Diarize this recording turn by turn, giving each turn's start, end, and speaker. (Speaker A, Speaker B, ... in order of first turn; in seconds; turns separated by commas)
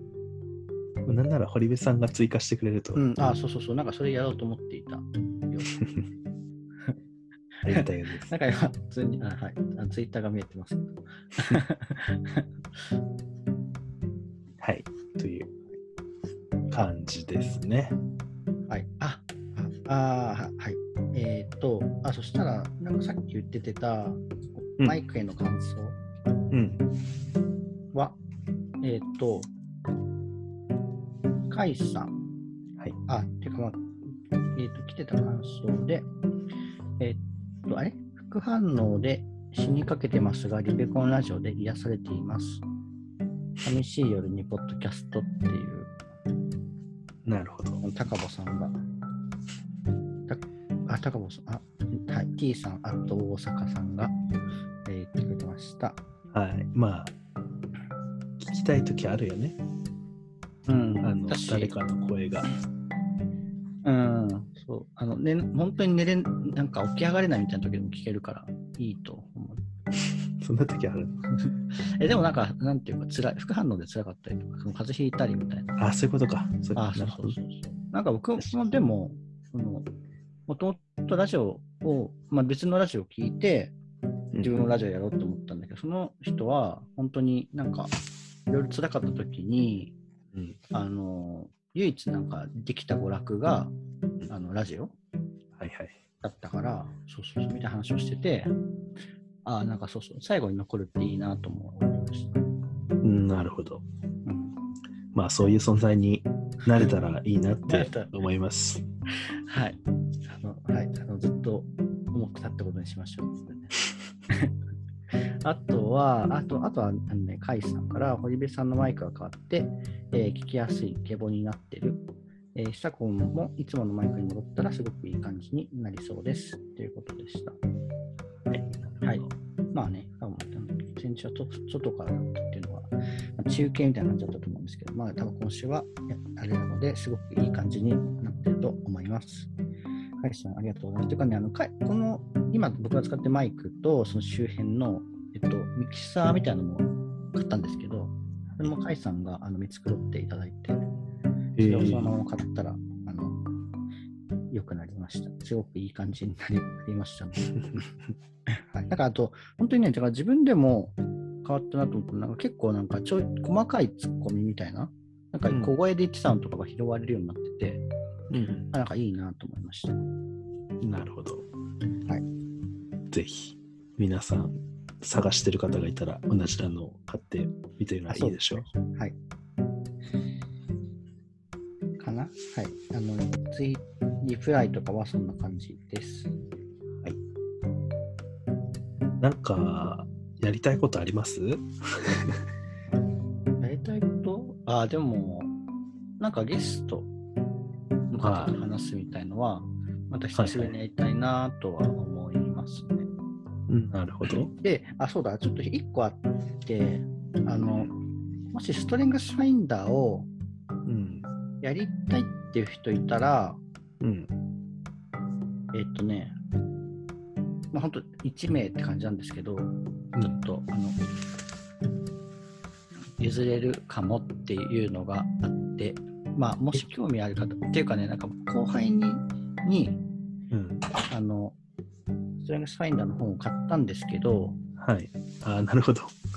Speaker A: 1.1-3.0, Speaker B: 3.0-5.8, Speaker A: 7.7-8.3, Speaker B: 7.7-12.5, Speaker A: 14.6-15.5, Speaker A: 16.7-18.0, Speaker B: 18.7-26.0, Speaker A: 26.5-26.8, Speaker B: 27.9-28.2, Speaker B: 28.8-29.5, Speaker B: 31.5-32.1, Speaker B: 33.1-33.8, Speaker B: 34.5-36.1, Speaker B: 37.0-42.6, Speaker B: 43.6-46.0, Speaker A: 47.3-47.8, Speaker B: 47.8-48.8, Speaker B: 50.3-54.1, Speaker B: 54.9-56.0, Speaker A: 56.3-57.1, Speaker A: 58.4-59.6, Speaker B: 60.7-61.7, Speaker A: 61.0-62.5, Speaker B: 63.8-69.6, Speaker A: 70.4-71.2, Speaker B: 72.0-75.7, Speaker A: 75.8-77.4, Speaker B: 76.8-79.9, Speaker B: 80.5-83.8, Speaker B: 84.4-87.9, Speaker B: 88.5-90.0, Speaker A: 90.3-90.6, Speaker B: 90.7-93.7, Speaker B: 94.3-95.0, Speaker A: 95.6-96.0, Speaker B: 96.2-98.5, Speaker B: 99.5-102.4, Speaker A: 103.0-103.8, Speaker B: 104.3-104.5, Speaker A: 105.1-108.8, Speaker B: 107.7-108.1, Speaker B: 109.3-113.8, Speaker B: 114.3-114.5, Speaker B: 115.1-122.0, Speaker B: 122.5-127.6, Speaker A: 128.5-129.3, Speaker B: 129.0-139.5, Speaker B: 140.2-150.9, Speaker A: 151.6-152.1, Speaker B: 151.6-153.4, Speaker B: 154.5-157.9, Speaker B: 158.5-167.8, Speaker A: 168.3-168.7, Speaker B: 168.7-170.0, Speaker A: 170.8-171.5, Speaker A: 173.1-178.7, Speaker B: 178.1-179.2, Speaker B: 182.0-186.3, Speaker A: 189.2-192.4, Speaker B: 193.6-195.5, Speaker B: 196.2-197.1, Speaker B: 198.1-203.1, Speaker A: 198.2-198.6, Speaker A: 200.3-200.7, Speaker A: 203.7-204.5, Speaker B: 204.6-207.9, Speaker B: 208.5-210.3, Speaker A: 210.9-211.3, Speaker B: 211.6-213.6, Speaker A: 214.0-214.3, Speaker B: 215.7-216.4, Speaker B: 217.7-221.0, Speaker B: 223.2-230.0, Speaker A: 230.5-230.8, Speaker B: 231.1-231.6, Speaker B: 232.4-234.6, Speaker A: 234.8-236.1